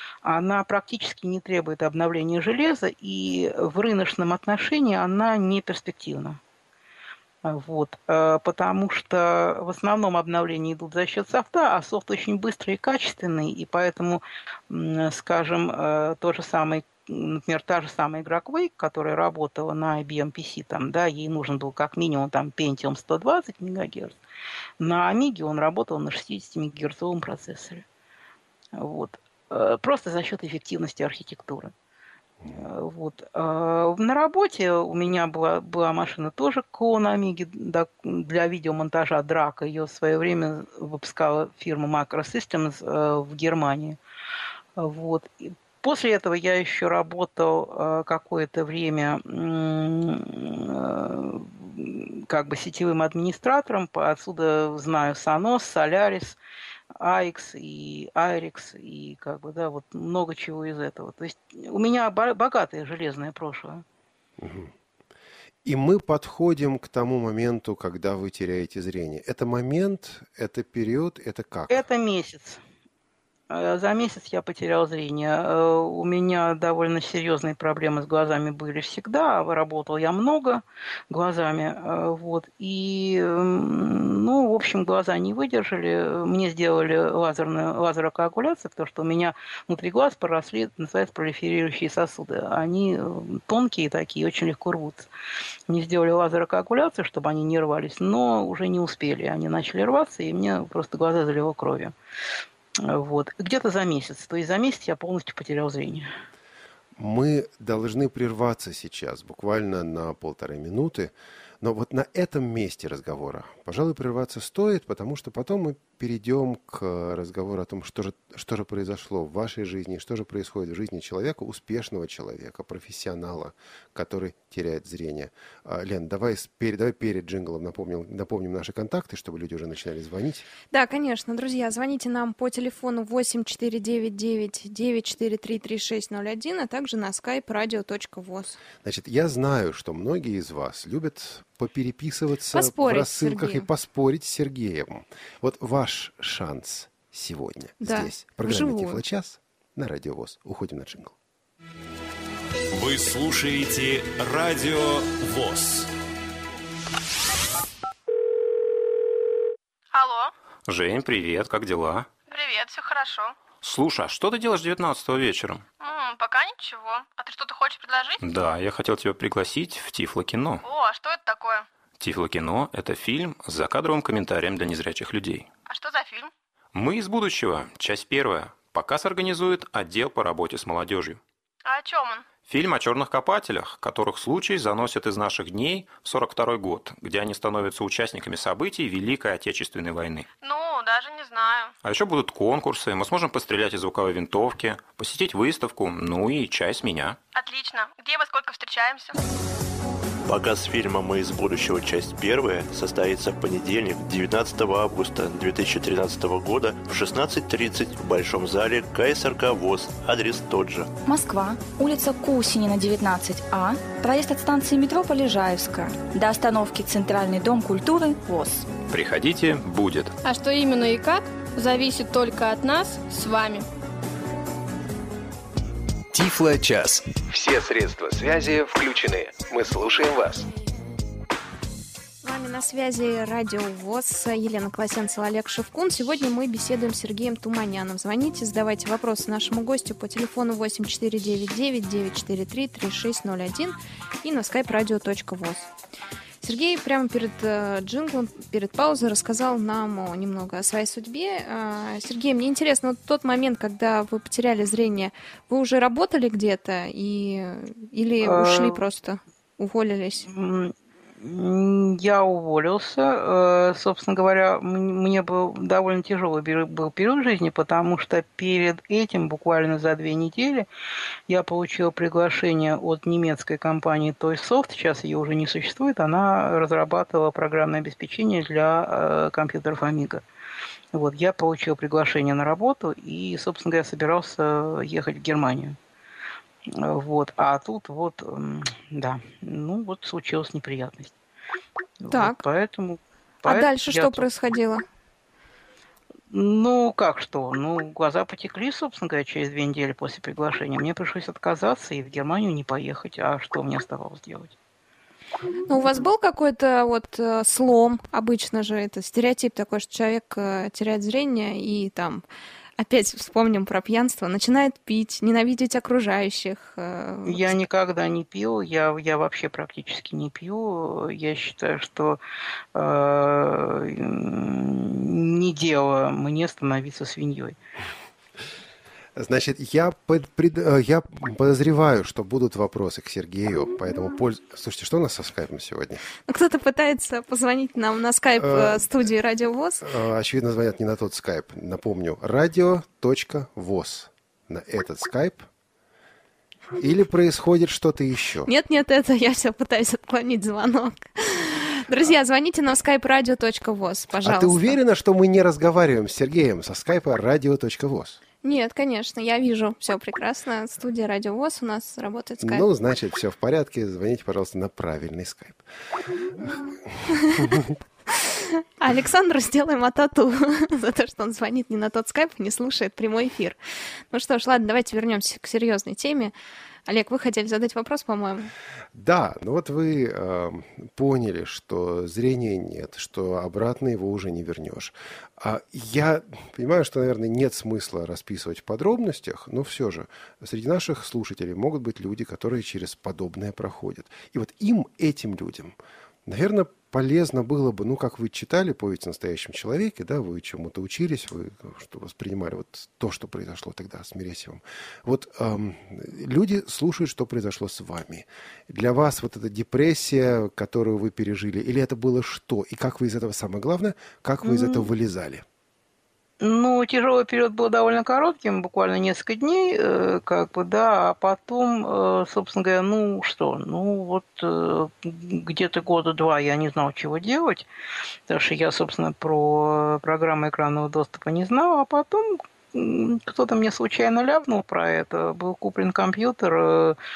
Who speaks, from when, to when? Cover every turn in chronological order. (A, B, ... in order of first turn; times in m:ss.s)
0:00.2-0:06.4 A
0:07.4-0:24.2 A
0:24.8-0:27.8 A
0:28.8-0:31.7 A
0:32.5-0:44.0 A
0:44.8-0:56.4 A
0:57.0-1:03.8 A
1:04.4-1:04.7 B
1:05.6-1:11.9 B
1:11.7-1:12.6 A
1:13.5-1:35.1 A
1:35.7-1:41.9 A
1:42.8-1:46.1 A
1:47.0-2:10.5 B
2:10.7-2:18.6 C
2:18.8-2:31.2 B
2:22.5-2:23.7 C
2:27.8-2:29.0 C
2:32.7-2:35.9 D
2:39.9-2:40.3 E
2:40.7-2:42.1 D
2:42.3-2:43.4 E
2:43.6-2:45.6 D
2:45.8-2:48.2 E
2:48.2-2:50.6 D
2:50.6-2:51.7 E
2:52.0-2:55.5 D
2:55.7-2:56.3 E
2:56.7-3:01.2 D
3:01.6-3:02.3 E
3:02.4-3:10.3 D
3:10.4-3:11.7 E
3:11.8-3:17.2 D
3:17.3-3:19.2 E
3:20.2-3:30.9 F
3:31.1-3:38.7 G
3:38.9-3:40.1 D
3:40.3-3:41.1 E
3:40.4-3:43.6 H
3:42.4-3:43.2 E
3:46.1-3:50.5 I
3:52.2-4:05.7 C
4:06.4-4:20.3 C
4:18.2-4:18.8 A
4:20.3-4:30.7 A
4:31.3-4:40.2 A
4:40.9-4:45.8 A
4:46.7-4:51.1 A
4:52.0-4:54.3 A
4:52.1-4:52.4 C
4:53.4-4:54.8 C
4:56.3-5:04.5 A
5:05.7-5:12.2 C
5:12.8-5:17.6 C
5:17.3-5:22.2 A
5:22.8-5:27.6 A
5:29.2-5:36.0 B
5:36.3-5:39.9 C
5:38.4-5:38.9 B
5:39.8-5:45.5 B
5:46.8-5:48.5 B
5:48.5-5:54.8 C
5:54.2-5:58.2 B
5:58.4-6:02.7 C
6:02.4-6:05.6 B
6:06.4-6:07.7 B
6:07.3-6:07.6 C
6:08.1-6:13.6 C
6:14.1-6:16.3 C
6:16.9-6:18.5 C
6:18.9-6:55.4 B
6:54.4-6:54.9 A
6:56.4-7:07.7 A
7:08.3-7:17.0 A